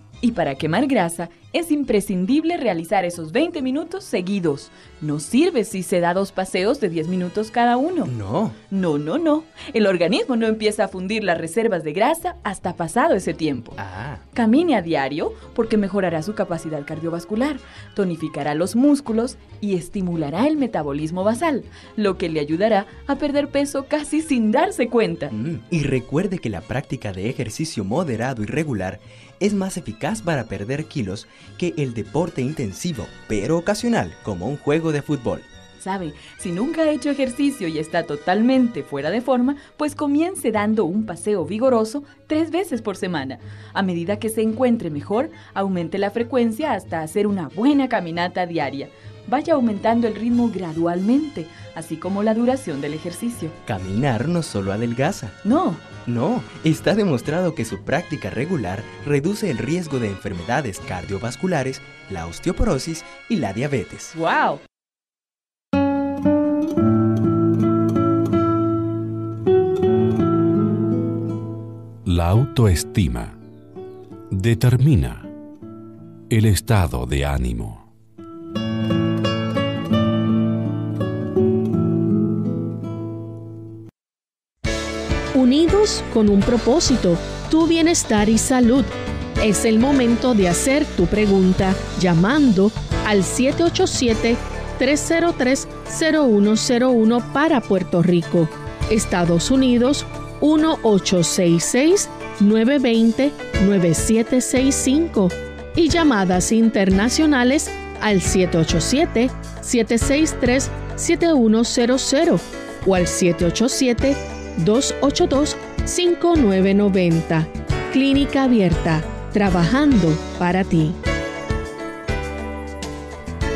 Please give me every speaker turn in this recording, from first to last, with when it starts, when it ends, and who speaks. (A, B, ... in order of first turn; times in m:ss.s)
0:00.2-0:08.1 A
0:08.1-0:08.6 B
0:08.7-0:13.8 A
0:13.8-0:14.2 B
0:14.3-0:25.3 A
0:25.3-0:35.5 B
0:35.8-0:53.6 A
0:53.6-0:55.4 B
0:55.4-0:56.0 A
0:56.0-1:04.1 B
1:04.1-1:04.6 A
1:12.0-1:13.4 C
1:14.3-1:15.3 C
1:16.3-1:17.9 C
1:25.3-2:01.0 D